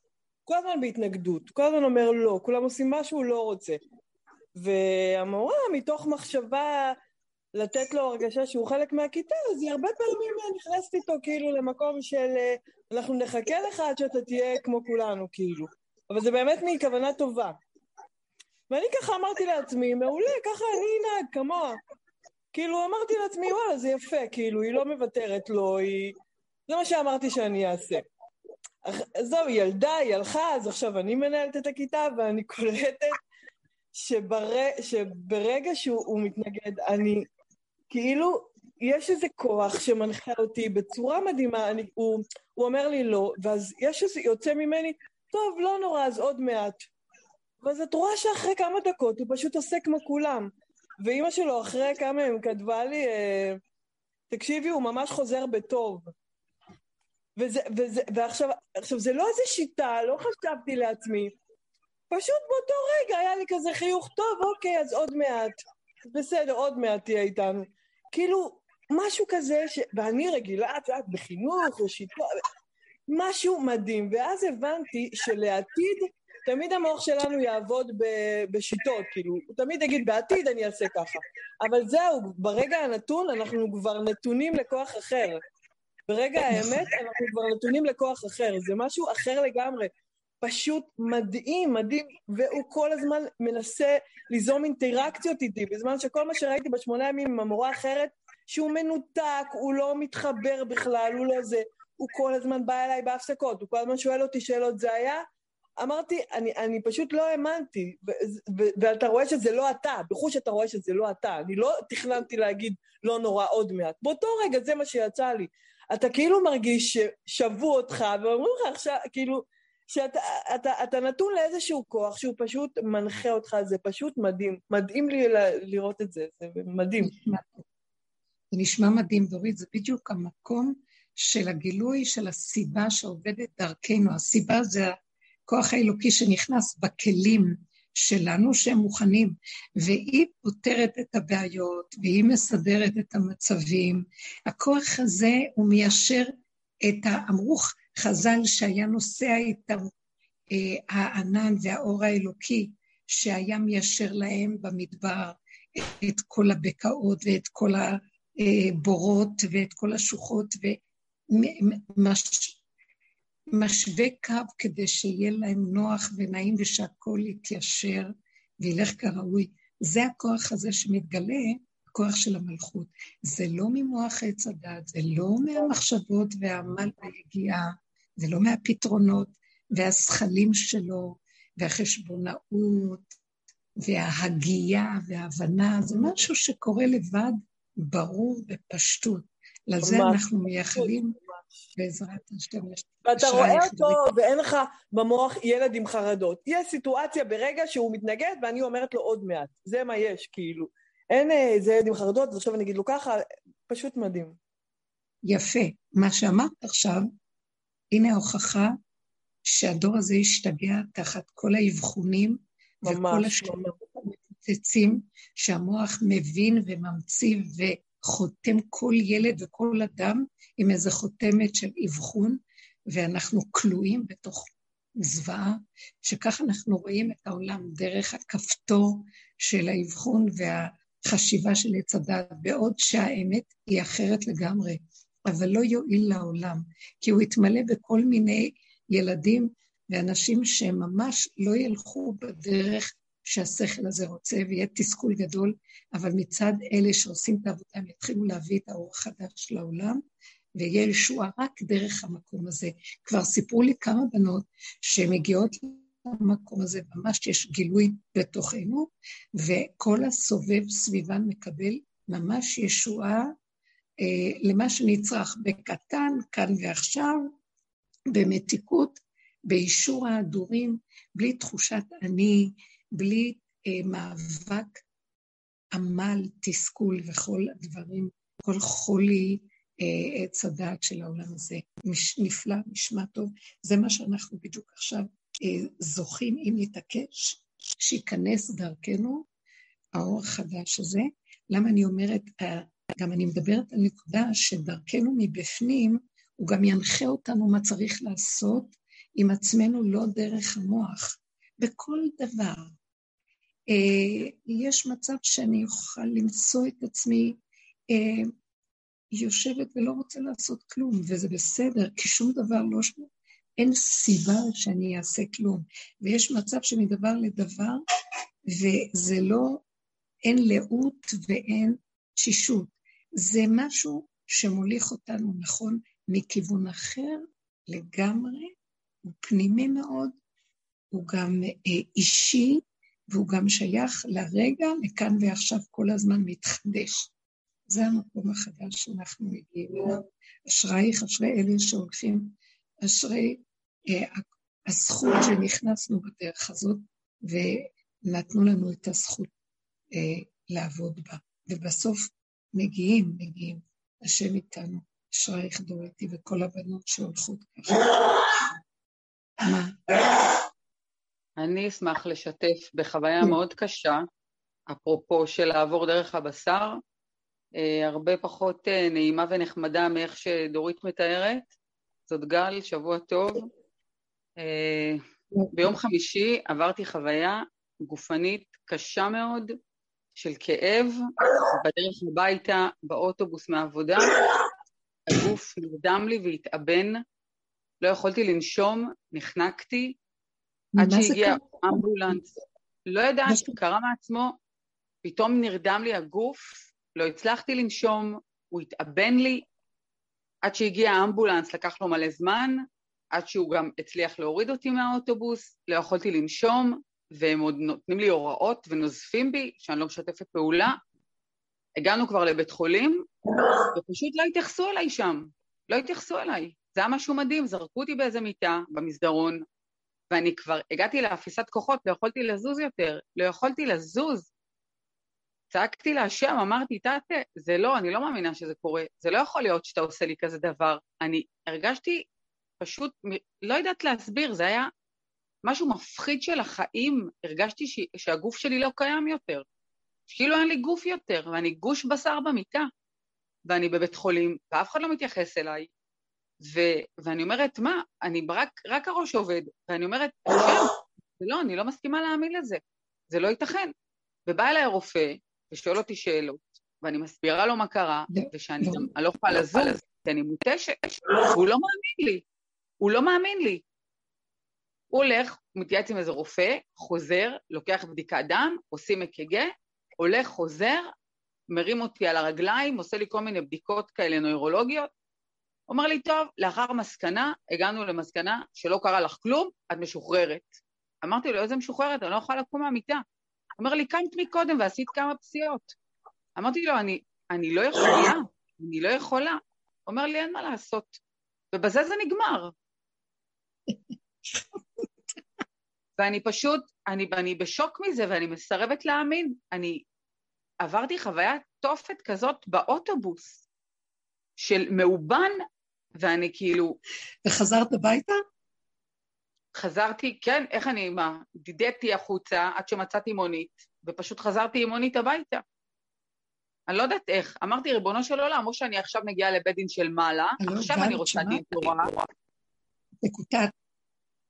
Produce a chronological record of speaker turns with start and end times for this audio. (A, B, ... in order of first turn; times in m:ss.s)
0:00.5-0:03.8 A
0:04.5-0:07.0 A
0:07.5-0:17.6 A
0:18.7-0:21.8 A
0:22.5-0:26.1 A
0:26.7-0:28.1 A
0:28.8-0:33.2 A
0:33.9-0:37.3 A
0:37.9-0:46.9 A
0:47.6-0:53.6 A
0:54.3-0:56.1 A
0:57.4-1:01.3 A
1:02.1-1:12.4 A
1:13.1-1:25.4 A
1:26.1-1:45.2 A
1:45.8-2:07.1 A
2:07.0-2:07.6 B
2:08.5-2:14.9 B
2:15.5-2:26.3 B
2:26.8-2:29.9 B
2:30.5-2:40.8 B
2:41.3-2:42.6 B
2:43.5-3:03.2 B
3:03.8-3:11.2 B
3:09.8-3:10.9 A
3:11.8-3:14.1 B
3:13.0-3:24.4 A
3:25.2-3:27.1 B
3:27.9-3:28.7 B
3:29.4-3:42.4 B
3:32.8-3:33.7 A
3:42.9-4:10.0 B
4:10.6-4:23.3 B
4:24.0-4:27.3 B
4:28.1-4:34.8 B
4:35.7-4:49.2 B
4:50.0-5:02.7 B
5:03.7-5:07.4 B
5:07.9-5:08.3 B
5:09.1-5:17.8 B
5:18.5-5:19.6 B
5:20.3-5:28.5 B
5:29.0-5:30.1 B
5:30.9-5:37.1 B
5:37.7-5:49.3 B
5:49.9-5:58.4 B
5:59.4-6:00.3 B
6:01.4-6:04.0 C
6:04.7-6:06.8 C
6:07.5-6:11.5 C
6:12.1-6:13.5 C
6:14.4-6:19.6 C
6:20.2-6:21.0 C
6:21.5-6:24.1 C
6:25.1-6:27.0 C
6:27.8-6:30.0 C
6:30.8-6:32.2 B
6:30.8-6:32.2 C
6:32.8-6:34.4 C
6:33.3-6:33.6 B
6:35.0-6:39.4 C
6:40.4-6:42.6 C
6:43.1-6:50.8 C
6:51.8-6:53.1 C
6:53.7-6:59.4 C
7:00.1-7:04.3 C
7:05.5-7:12.0 C
7:12.6-7:14.7 C
7:15.4-7:19.4 C
7:20.1-7:22.7 C
7:23.4-7:25.7 C
7:26.4-7:33.7 C
7:34.2-7:42.2 C
7:38.1-7:39.7 B
7:42.8-7:43.6 C
7:44.9-7:50.9 C
7:51.5-7:54.9 C
7:55.7-8:00.5 C
8:01.0-8:03.0 C
8:03.6-8:05.7 C
8:06.4-8:11.0 C
8:11.5-8:12.5 C
8:14.3-8:14.8 B
8:16.0-8:19.8 C
8:20.6-8:23.4 C
8:24.4-8:25.4 C
8:26.0-8:26.8 C
8:27.2-8:28.2 B
8:29.5-8:35.4 C
8:36.7-8:42.0 C
8:40.4-8:41.8 B
8:43.0-8:43.5 B